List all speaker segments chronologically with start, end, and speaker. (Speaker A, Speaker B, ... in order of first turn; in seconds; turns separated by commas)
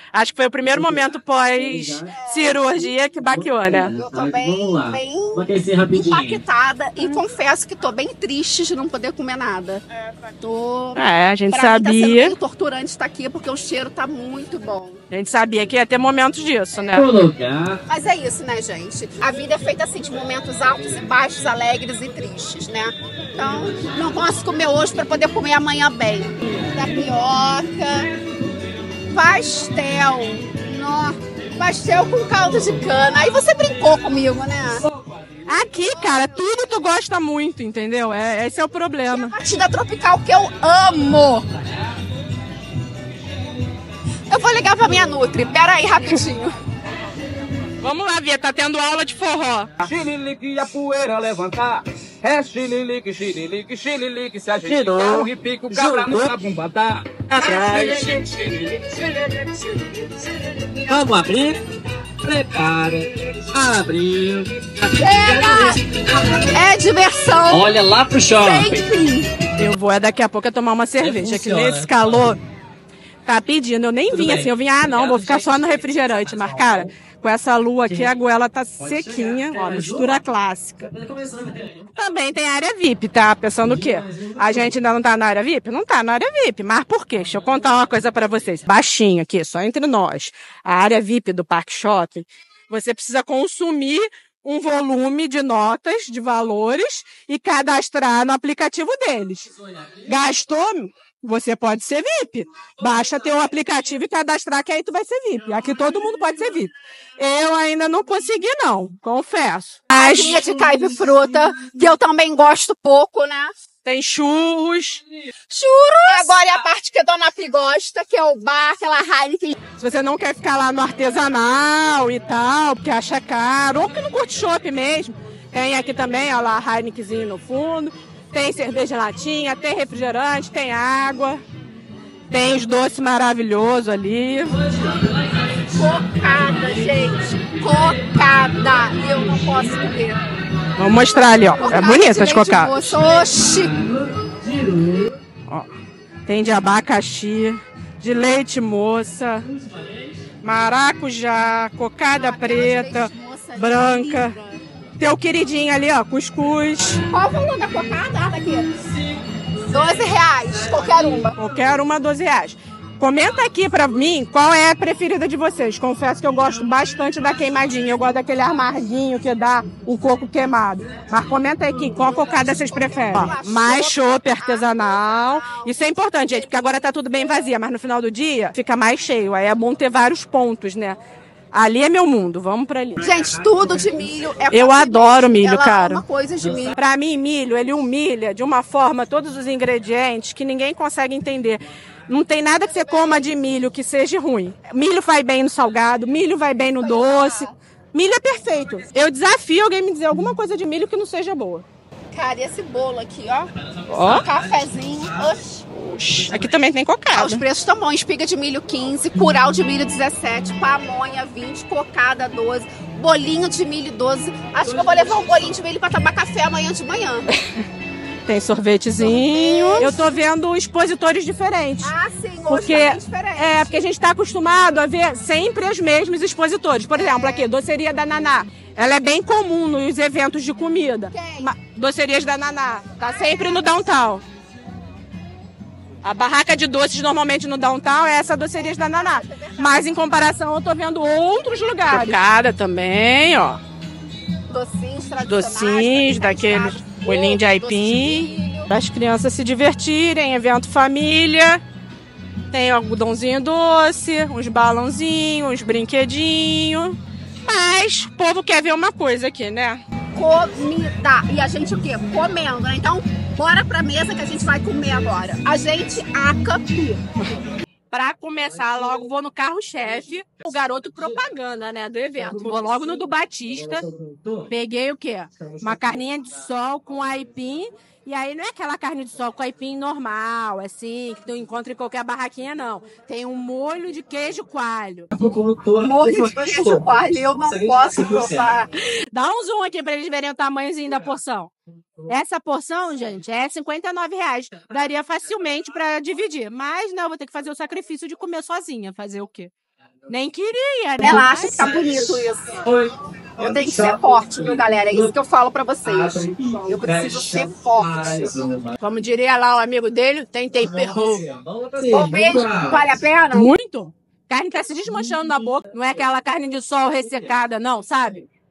Speaker A: 0.1-3.9, Speaker B: 0.7-1.0, Speaker B: 1.6-2.2, Speaker C: 2.2-2.6, Speaker B: 3.3-6.4, Speaker C: 3.9-9.8, Speaker C: 10.4-15.0, Speaker A: 10.9-12.3, Speaker A: 15.1-17.1, Speaker B: 16.9-17.8, Speaker C: 17.9-28.1, Speaker C: 29.1-34.8, Speaker A: 35.5-39.3, Speaker C: 35.8-36.7, Speaker C: 39.1-41.5, Speaker C: 44.3-46.5, Speaker A: 47.8-49.7, Speaker D: 49.8-57.0, Speaker B: 54.6-56.3, Speaker A: 57.3-58.0, Speaker B: 57.4-58.2, Speaker D: 57.5-58.8, Speaker B: 60.9-61.6, Speaker B: 62.2-66.5, Speaker C: 65.0-65.8, Speaker C: 66.5-67.7, Speaker B: 67.5-68.8, Speaker C: 68.4-69.3, Speaker A: 69.6-72.4, Speaker B: 71.0-72.2, Speaker A: 73.3-80.8, Speaker B: 74.1-76.9, Speaker B: 77.9-78.1, Speaker B: 78.8-80.2, Speaker B: 80.8-81.9, Speaker A: 82.0-99.5, Speaker B: 83.6-84.8, Speaker A: 100.0-110.4, Speaker C: 109.9-113.5, Speaker A: 113.8-116.3, Speaker C: 116.0-119.5, Speaker A: 119.8-131.4, Speaker A: 132.3-134.6, Speaker B: 134.6-137.0, Speaker C: 135.7-140.2, Speaker A: 140.8-142.9, Speaker C: 141.6-143.8, Speaker B: 143.0-145.1, Speaker A: 146.3-149.5, Speaker B: 149.5-150.0, Speaker A: 150.4-154.3, Speaker C: 152.1-154.6, Speaker A: 155.0-157.0, Speaker C: 157.1-158.7, Speaker B: 159.7-160.0, Speaker C: 159.7-161.4, Speaker B: 160.8-161.2, Speaker A: 161.4-181.0, Speaker C: 172.0-177.4, Speaker A: 181.5-183.0, Speaker C: 183.0-186.8, Speaker B: 183.0-184.0, Speaker A: 184.5-186.0, Speaker B: 186.4-186.8, Speaker A: 186.8-201.6, Speaker C: 192.6-193.3, Speaker C: 196.8-197.6, Speaker C: 202.1-203.5, Speaker B: 203.7-206.6, Speaker A: 203.9-204.2, Speaker C: 204.1-205.6, Speaker A: 205.8-207.4, Speaker C: 207.1-217.3, Speaker B: 214.6-215.5, Speaker A: 218.2-221.9, Speaker C: 219.0-219.9, Speaker C: 221.8-223.8, Speaker A: 222.5-234.2, Speaker C: 226.9-227.5, Speaker C: 231.1-231.5, Speaker C: 233.1-233.6, Speaker A: 236.0-243.6, Speaker C: 238.5-239.9, Speaker C: 241.9-242.2, Speaker C: 244.5-248.7, Speaker A: 245.2-251.6, Speaker A: 252.5-259.8, Speaker C: 260.1-267.0, Speaker A: 267.9-273.9, Speaker B: 272.2-274.5, Speaker A: 274.5-285.1, Speaker B: 275.4-276.0, Speaker B: 285.1-288.5, Speaker C: 285.8-288.7, Speaker A: 289.1-291.5, Speaker A: 292.1-299.5, Speaker A: 300.1-301.7, Speaker C: 301.0-302.6, Speaker B: 301.0-305.1, Speaker C: 303.4-308.3, Speaker B: 305.8-308.8, Speaker A: 308.8-311.2, Speaker B: 310.6-312.9, Speaker C: 311.9-313.5, Speaker A: 313.3-318.2